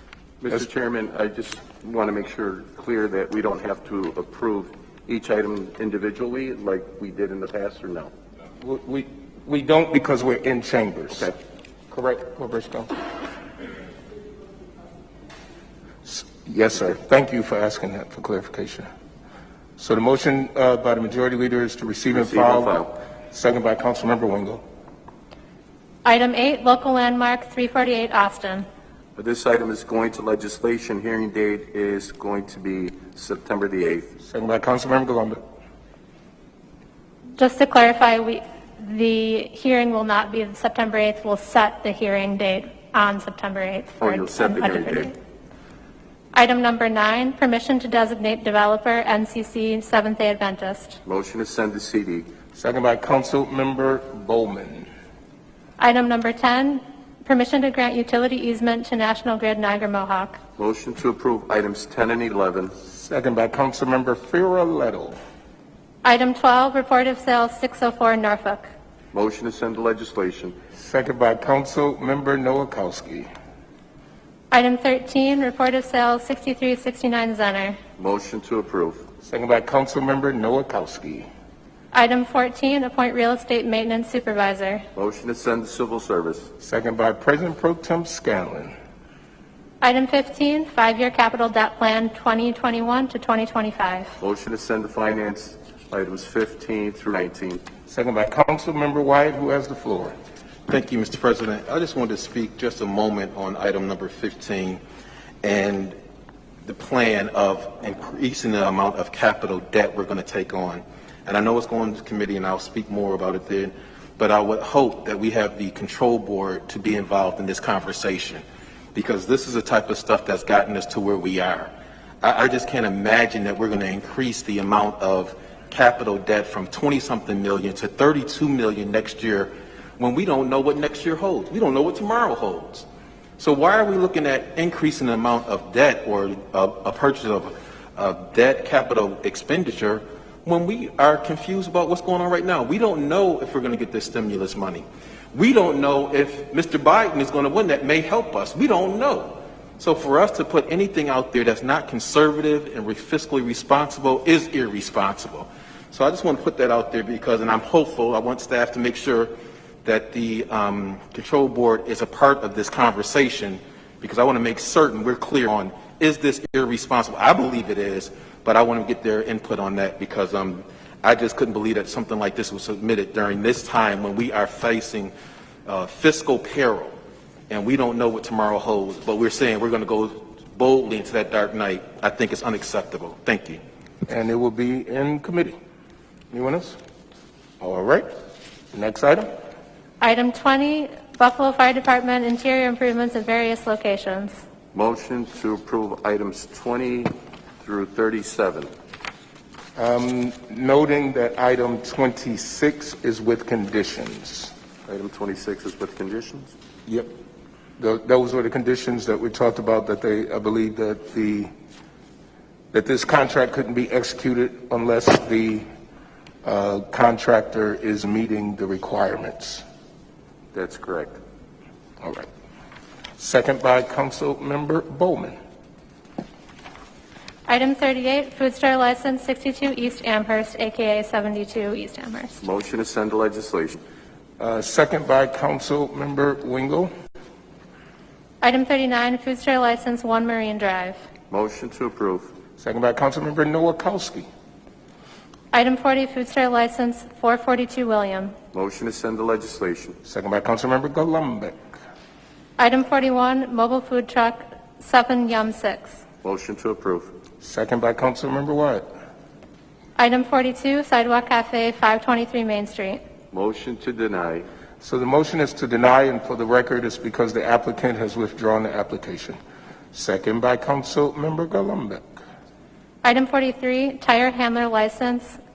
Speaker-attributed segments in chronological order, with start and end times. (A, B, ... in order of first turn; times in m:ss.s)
0:00.4-0:08.1 A
0:08.6-0:11.3 B
0:11.9-0:12.9 B
0:16.0-0:18.9 B
0:19.8-0:24.6 B
0:22.1-0:22.9 A
0:26.0-0:28.6 C
0:29.2-0:34.1 A
0:34.2-0:35.4 B
0:37.4-0:45.1 C
0:44.0-0:45.1 A
0:46.3-0:51.0 C
0:51.0-0:52.3 A
0:52.6-0:54.9 B
0:55.8-1:00.4 C
1:00.6-1:02.7 A
1:02.8-1:05.2 B
1:06.0-1:08.7 C
1:09.1-1:10.6 A
1:10.8-1:13.3 B
1:14.5-1:17.8 C
1:18.0-1:19.0 A
1:19.2-1:21.3 B
1:21.9-1:24.8 C
1:25.0-1:26.5 A
1:26.6-1:28.7 B
1:29.8-1:34.1 C
1:34.2-1:37.6 A
1:37.9-1:40.2 B
1:40.7-1:44.8 D
1:45.4-1:46.0 D
1:46.6-2:01.7 D
2:02.2-2:12.9 D
2:13.4-2:39.3 D
2:39.8-2:55.1 D
2:55.7-2:57.0 D
2:57.5-3:03.6 D
3:04.1-3:05.6 B
3:06.3-3:06.8 B
3:07.6-3:08.1 B
3:08.7-3:09.3 B
3:10.0-3:14.4 C
3:14.7-3:18.7 A
3:19.8-3:24.5 B
3:24.9-3:26.5 A
3:27.8-3:31.5 B
3:32.7-3:35.6 B
3:36.4-3:39.6 B
3:40.5-3:41.2 A
3:42.0-3:42.3 B
3:43.2-3:45.4 B
3:47.5-3:52.4 C
3:52.4-3:53.8 A
3:54.4-3:56.9 B
3:58.4-4:01.0 C
4:01.3-4:02.3 A
4:02.6-4:04.3 B
4:05.5-4:08.4 C
4:08.5-4:10.0 A
4:10.0-4:11.6 B
4:12.6-4:16.0 C
4:16.2-4:17.1 A
4:17.4-4:18.9 B
4:20.0-4:23.0 C
4:23.3-4:24.5 A
4:24.8-4:29.4 B
4:29.9-4:32.0 B
4:33.0-4:35.4 C